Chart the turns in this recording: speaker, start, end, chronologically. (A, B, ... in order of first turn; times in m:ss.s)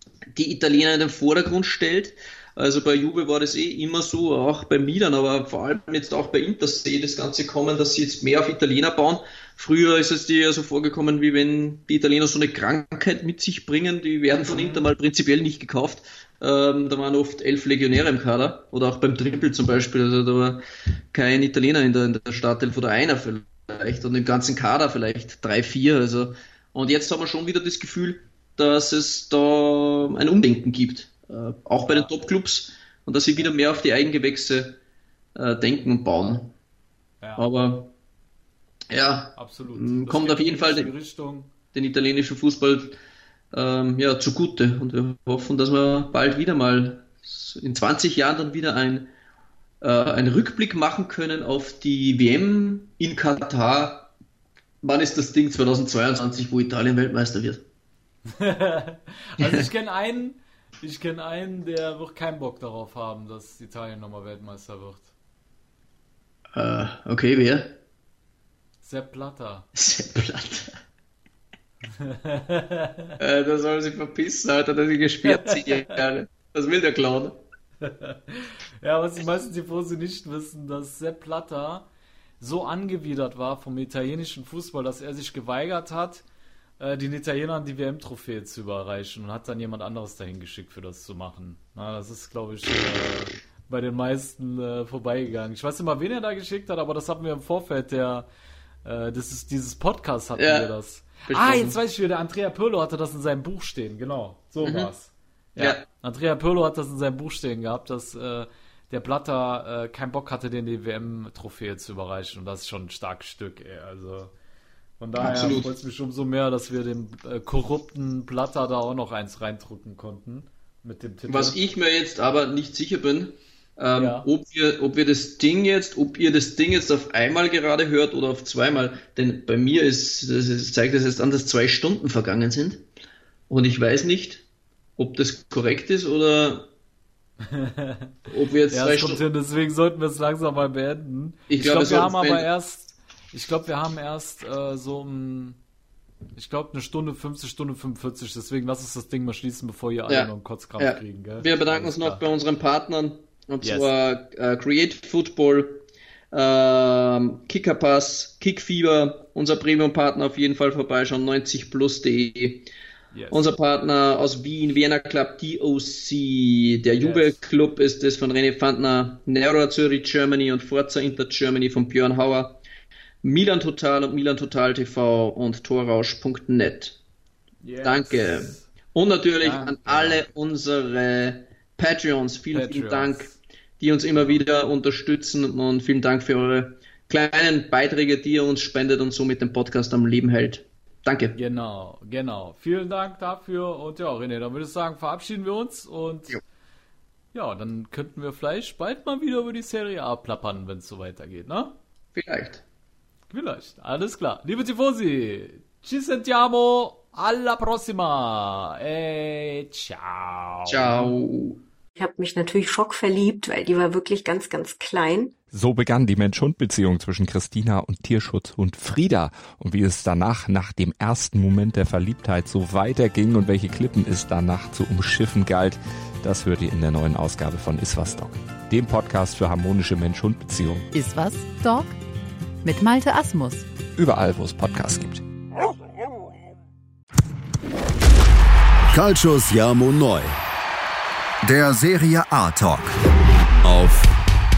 0:00.3-0:34.8 A
0:14.4-0:14.9 B
0:31.8-0:32.1 B
0:35.4-0:36.6 A
0:37.2-0:37.5 B
0:37.4-0:37.9 A
0:38.9-0:40.9 A
0:39.4-0:41.5 B
0:41.7-0:43.0 A
0:43.5-0:49.1 A
0:49.8-0:54.1 A
0:54.8-0:57.6 A
0:58.3-1:05.1 B
1:06.5-1:07.7 A
1:08.8-1:09.7 B
1:09.7-1:10.8 A
1:12.0-1:13.2 B
1:13.2-1:17.4 A
1:15.2-1:16.0 B
1:17.8-1:21.9 B
1:22.4-1:26.2 B
1:26.8-1:38.3 B
1:38.8-1:54.3 B
1:40.4-1:40.7 A
1:41.3-1:41.8 A
1:44.6-1:44.9 A
1:45.6-1:45.8 A
1:55.0-2:01.6 B
1:55.2-1:55.7 A
2:01.3-2:12.8 A
2:03.9-2:04.3 B
2:13.5-2:14.4 A
2:15.0-2:16.7 A
2:17.5-2:18.1 B
2:18.3-2:19.2 A
2:18.7-2:25.6 B
2:21.5-2:22.5 A
2:26.4-2:32.2 B
2:30.1-2:42.7 A
2:33.6-2:33.9 B
2:43.1-2:43.5 B
2:43.3-2:52.6 A
2:47.0-2:47.4 B
2:53.2-2:57.0 A
2:57.6-2:58.7 B
2:57.8-3:11.4 A
2:59.4-3:00.3 B
3:02.5-3:03.4 B
3:11.4-3:16.4 B
3:17.3-3:21.7 B
3:22.1-3:22.6 A
3:23.3-3:31.1 B
3:30.7-3:31.6 A
3:32.0-3:35.4 C
3:35.5-3:50.9 D
3:50.9-3:51.9 E
3:52.6-3:53.7 E
3:54.0-3:55.2 D
3:58.9-4:00.4 F
4:01.4-4:02.9 F
4:03.6-4:04.2 F